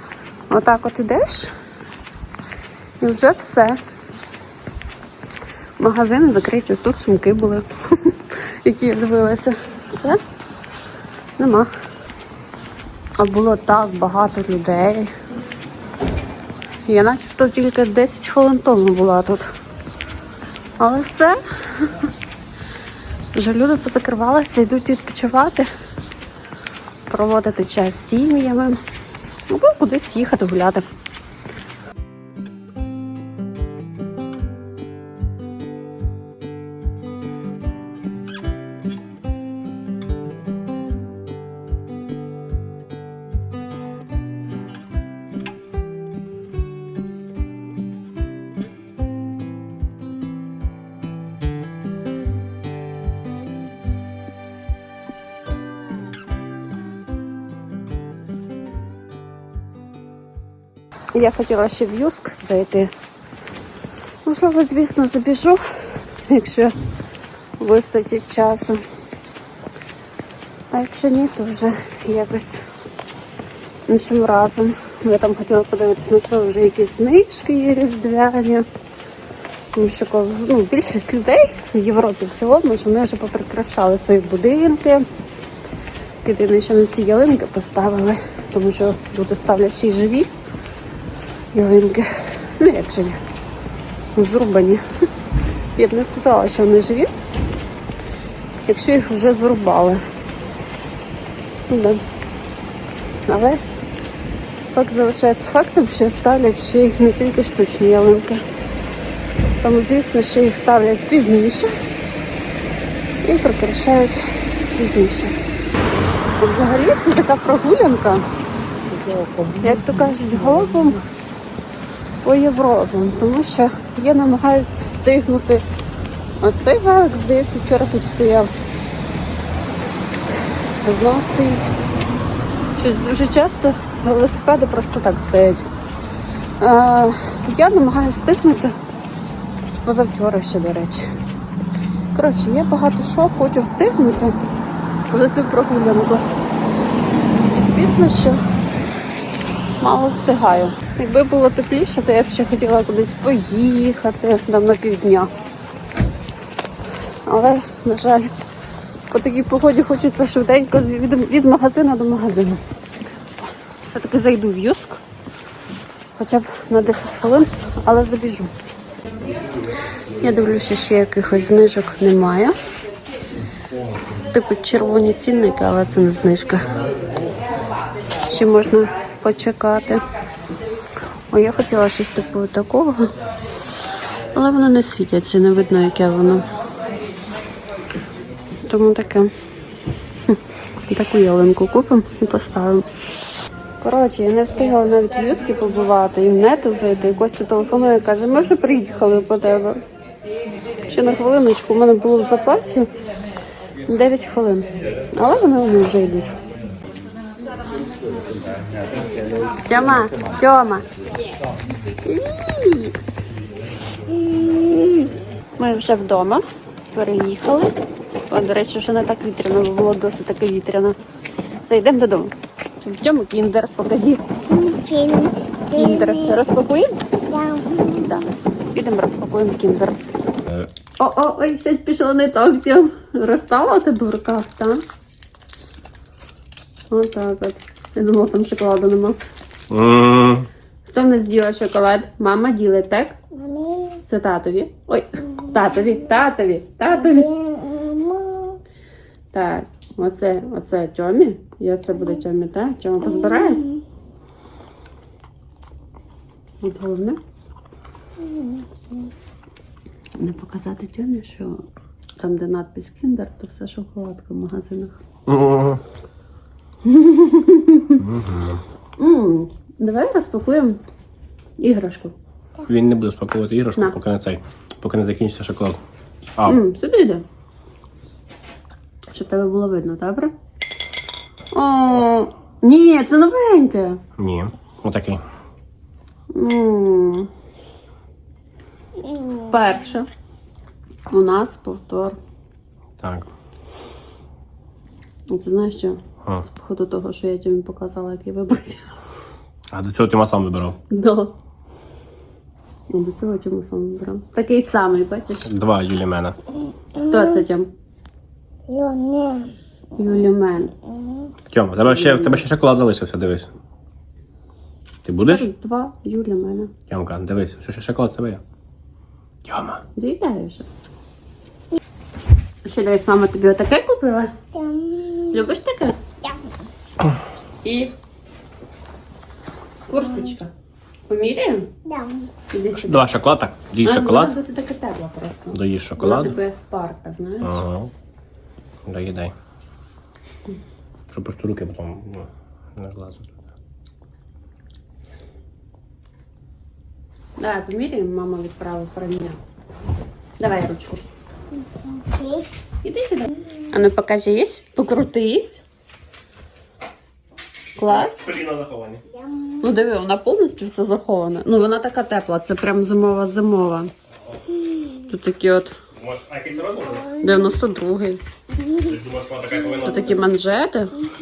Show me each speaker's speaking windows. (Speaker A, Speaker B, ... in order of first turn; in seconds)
Speaker A: 0.5-1.5, 3.0-3.8, 5.8-10.2, 11.4-11.7, 13.2-15.1, 16.9-19.5, 20.8-22.1, 23.3-25.7, 27.1-28.8, 29.5-30.8, 61.1-62.9, 64.2-65.6, 66.3-66.7, 67.6-68.8, 70.7-72.6, 73.9-78.7, 79.7-85.1, 86.2-90.3, 91.5-93.2, 94.2-94.8, 95.8-97.1, 98.7-100.0, 101.7-102.0, 103.3-103.6, 104.7-108.4, 109.6-111.7, 113.2-115.3, 116.4-118.2, 119.5-121.0, 122.2-125.6, 126.4-128.5, 130.8-131.7, 132.8-135.7, 136.6-138.8, 139.7-141.1, 142.2-144.3, 145.1-146.3, 147.5-148.4, 149.8-155.3, 157.3-158.3, 159.1-162.6, 163.8-165.0, 166.2-168.5, 170.2-172.6, 174.2-176.7, 178.3-180.0, 181.3-183.1, 184.3-186.4, 188.7-189.3, 190.3-192.9, 193.8-199.8, 200.9-202.9, 203.9-206.3, 209.7-210.8, 212.0-213.0, 215.6-217.8, 218.3-221.0, 221.7-224.2, 225.7-227.0, 228.0-230.0, 231.0-234.8, 236.9-239.2, 240.8-243.2, 244.1-247.3, 249.3-253.7, 256.6-257.2, 260.2-261.6, 262.2-265.0, 266.8-268.0, 269.0-270.8, 271.6-272.1, 276.4-277.2, 279.1-280.3, 281.5-284.0, 286.3-287.3, 289.3-290.1, 291.1-292.2, 295.3-298.8, 300.9-301.4, 302.9-305.5, 307.0-307.7, 310.0-310.8, 311.9-312.4, 315.3-316.7, 320.0-320.7, 322.6-324.4, 325.3-326.0, 327.6-327.9, 329.9-330.5, 331.1-331.7, 332.5-333.1, 333.8-337.6, 347.4-349.4, 350.4-351.1, 352.8-355.6, 357.8-358.3, 359.6-363.9, 365.0-365.8, 367.2-368.2, 369.8-370.9
Speaker B: 224.5-226.4, 227.3-228.2, 243.3-244.0, 247.1-248.6, 308.7-309.5, 324.5-325.3, 331.9-332.3, 351.7-352.5
Speaker C: 239.7-240.5, 265.3-265.8, 268.0-268.6, 272.7-275.8, 284.2-285.2, 293.0-293.3, 299.7-300.8, 305.5-306.4, 311.5-313.5, 315.1-315.5, 316.9-318.4, 319.4-319.8, 332.7-334.4, 335.5-336.4, 337.4-337.9, 338.9-339.3, 341.1-343.3, 357.9-359.0, 365.9-367.2, 368.8-370.2